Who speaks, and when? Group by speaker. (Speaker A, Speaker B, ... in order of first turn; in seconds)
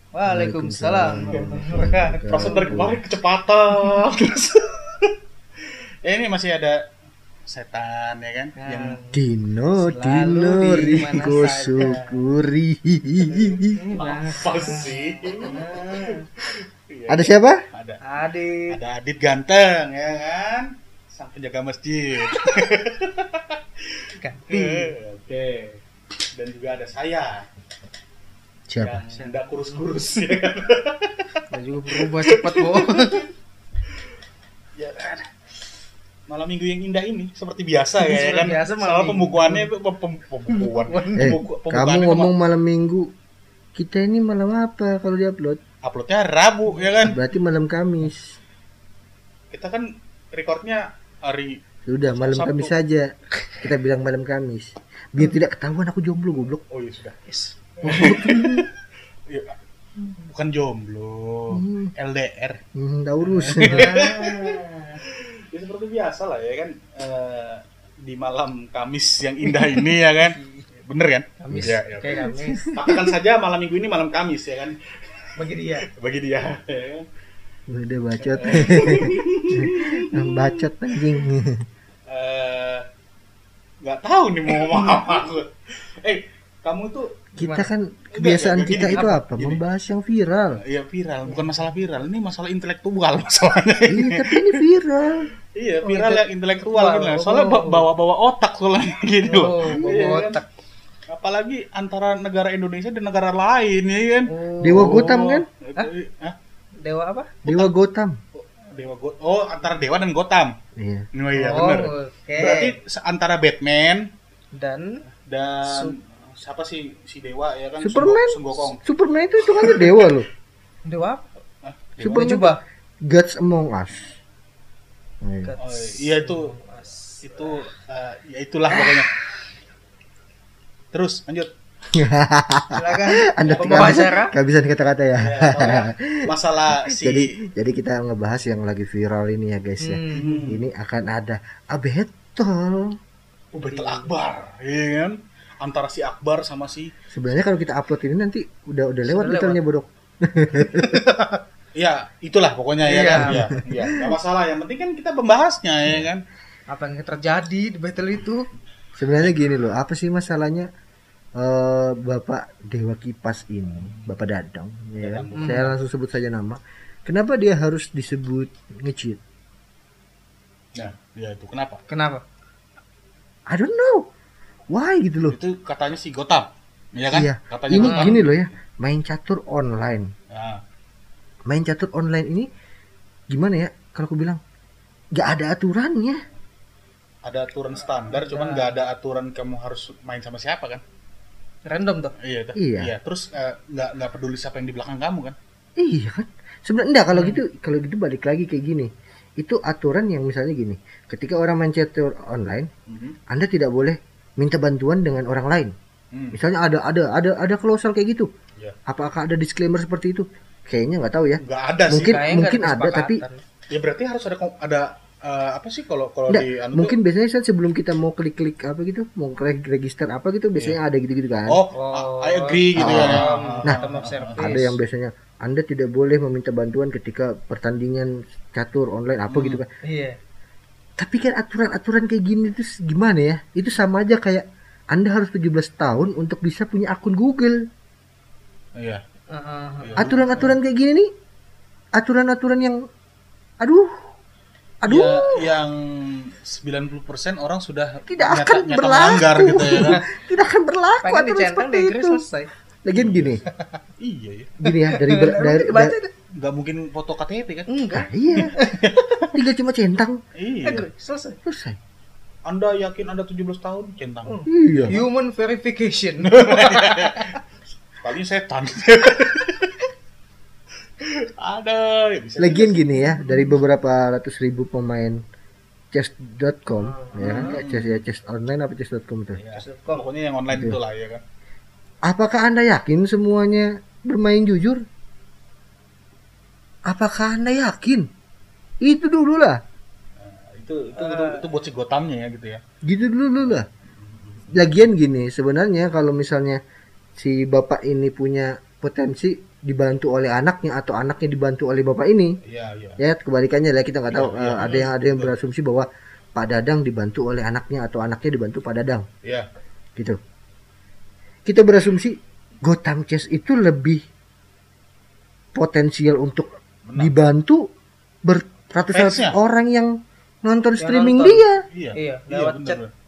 Speaker A: 0.1-2.9, 8.6-9.2, 9.7-12.2, 13.3-16.3, 18.0-18.8, 24.2-24.9, 29.1-29.8, 31.5-33.3, 38.0-39.7, 40.5-41.4, 57.2-58.1, 63.6-65.0, 70.2-70.7, 71.4-72.7, 75.3-75.9, 87.4-87.7, 88.7-89.2, 91.2-91.8, 95.8-97.9, 99.2-100.5, 104.2-105.2, 106.8-107.3, 111.3-112.7, 114.5-115.0, 115.6-115.9, 120.8-121.2, 122.0-122.6, 125.4-127.5, 128.7-129.0, 132.7-134.3, 139.8-140.5, 143.6-144.1, 149.1-149.6, 150.6-151.4, 152.8-153.4, 156.7-158.5, 165.3-165.7, 171.9-172.2, 177.7-178.2, 188.1-188.8, 191.7-192.1, 197.1-197.4, 212.0-213.4, 221.7-224.8, 229.8-230.2, 239.3-240.2, 249.7-249.9, 251.0-252.5, 254.9-256.1, 257.7-258.8, 260.6-261.4, 264.2-267.2, 276.7-277.6, 279.5-280.1, 290.9-291.4, 304.6-304.9, 320.8-322.8
Speaker B: 0.2-3.0, 9.1-13.9, 17.1-17.6, 28.7-29.0, 41.2-43.1, 43.8-45.6, 47.0-48.4, 51.9-56.6, 57.8-58.6, 61.5-61.9, 62.7-64.0, 71.5-73.2, 77.7-81.6, 87.4-90.6, 93.9-95.3, 99.7-100.0, 104.6-105.5, 107.4-108.2, 110.8-111.1, 117.8-120.3, 122.0-124.2, 125.2-125.5, 131.9-142.9, 147.1-151.0, 153.2-154.2, 159.0-160.7, 161.4-169.2, 173.5-174.1, 174.7-175.4, 177.1-180.1, 181.5-182.5, 183.3-184.4, 185.1-186.2, 192.6-192.9, 195.8-202.7, 203.3-205.7, 206.3-208.3, 208.9-213.2, 216.3-221.6, 222.8-223.8, 224.3-229.7, 231.0-237.6, 240.0-241.1, 242.0-242.8, 243.6-243.9, 244.8-245.5, 248.1-252.2, 252.8-253.4, 254.6-255.9, 257.9-258.6, 259.3-260.2, 261.4-261.8, 264.5-265.0, 272.4-275.2, 275.9-279.4, 280.5-280.8, 282.1-284.8, 286.9-288.1, 288.8-289.6, 292.8-293.7, 294.5-296.6, 297.2-302.3, 303.0-309.1, 311.4-314.0, 315.5-317.6, 318.2-319.9, 320.4-321.6
Speaker C: 1.1-1.6, 2.3-5.1, 6.0-6.8, 7.5-9.0, 13.7-16.2, 16.9-18.0, 18.7-23.6, 24.5-25.8, 26.4-27.5, 28.8-33.2, 34.8-35.3, 36.3-42.3, 45.8-47.2, 49.5-52.7, 56.7-57.2, 57.8-58.7, 59.3-59.5, 60.2-62.6, 63.2-77.1, 78.3-81.3, 82.1-82.8, 83.8-87.2, 88.2-89.6, 90.6-94.6, 95.5-100.4, 101.1-106.3, 107.4-107.7, 108.4-110.5, 111.1-114.1, 115.2-118.8, 119.4-120.2, 121.6-122.3, 125.6-126.5, 127.2-129.1, 130.9-131.5, 133.5-134.0, 135.2-137.3, 140.1-140.6, 143.5-146.9, 151.8-156.2, 163.8-164.2, 164.9-165.7, 170.8-171.8, 175.3-178.5, 180.3-180.6, 187.2-190.8, 192.2-195.3, 202.9-203.2, 206.1-206.4, 211.4-212.2, 213.7-217.0, 221.5-224.6, 229.3-229.6, 239.8-240.6, 244.9-250.0, 252.9-254.6, 256.4-257.8, 258.8-259.4, 260.4-260.9, 262.4-265.0, 266.2-267.4, 268.0-269.7, 271.0-272.9, 277.2-278.0, 279.4-281.2, 290.2-292.6, 293.4-294.5, 302.4-303.0, 304.1-305.4, 316.9-317.1, 318.9-319.4, 321.7-322.9